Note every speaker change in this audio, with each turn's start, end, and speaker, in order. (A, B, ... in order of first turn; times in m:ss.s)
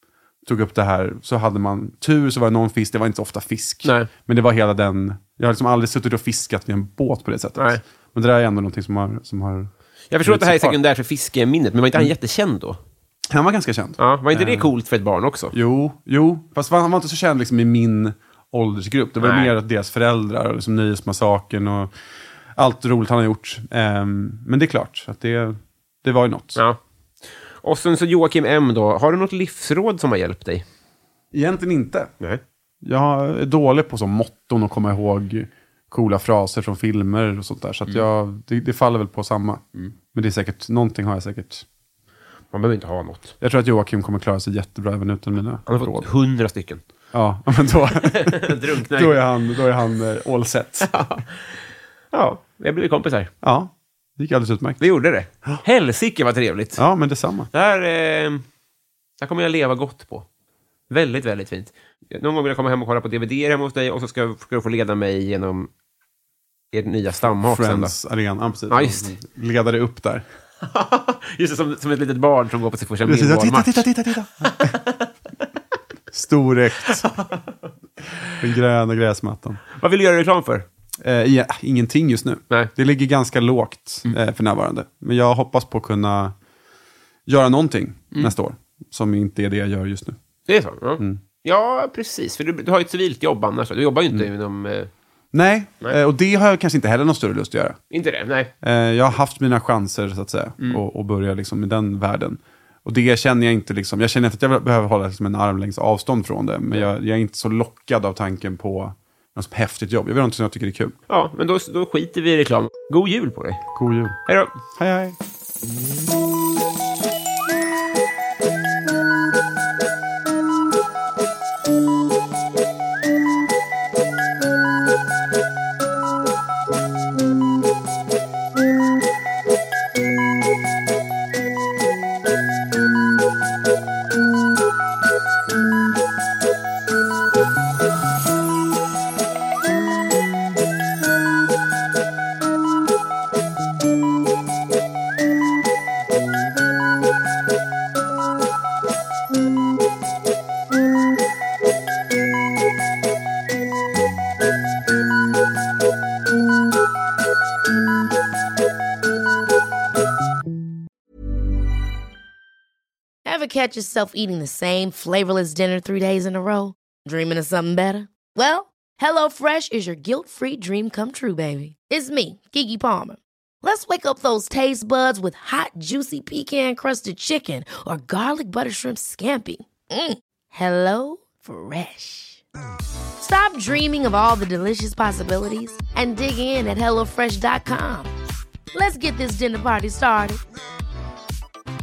0:00.4-0:09.7 A
0:03.8-0:04.1 B
0:07.6-0:07.8 B
0:10.1-0:12.8 B
0:10.2-0:10.8 A
0:13.3-0:14.7 A
0:14.0-0:15.5 B
0:15.5-0:21.9 A
0:19.2-0:19.5 B
0:22.6-0:26.6 A
0:27.6-0:30.6 B
0:31.3-0:32.1 A
0:32.8-0:41.6 A
0:42.5-0:43.3 B
0:43.4-0:46.1 A
0:45.7-0:46.8 B
0:47.1-0:50.9 A
0:48.0-0:49.2 B
0:50.8-0:53.3 B
0:53.4-0:54.8 A
0:54.8-0:56.8 B
0:56.8-0:57.5 A
0:57.5-0:58.4 B
0:59.2-1:00.2 B
1:00.9-1:05.7 B
1:06.7-1:07.9 B
1:07.4-1:10.2 A
1:08.7-1:09.1 B
1:10.6-1:15.1 B
1:13.0-1:14.7 A
1:16.1-1:17.0 A
1:17.0-1:17.7 B
1:18.4-1:19.6 A
1:19.7-1:20.6 B
1:21.0-1:26.3 A
1:27.3-1:30.2 A
1:30.5-1:34.9 B
1:35.3-1:37.8 A
1:37.9-1:38.5 B
1:38.6-1:51.0 A
1:51.1-1:53.6 B
1:53.7-1:54.2 A
1:54.3-1:54.5 B
1:54.7-1:55.2 A
2:43.2-3:02.4 C
3:03.2-3:08.1 C
3:08.7-3:10.4 C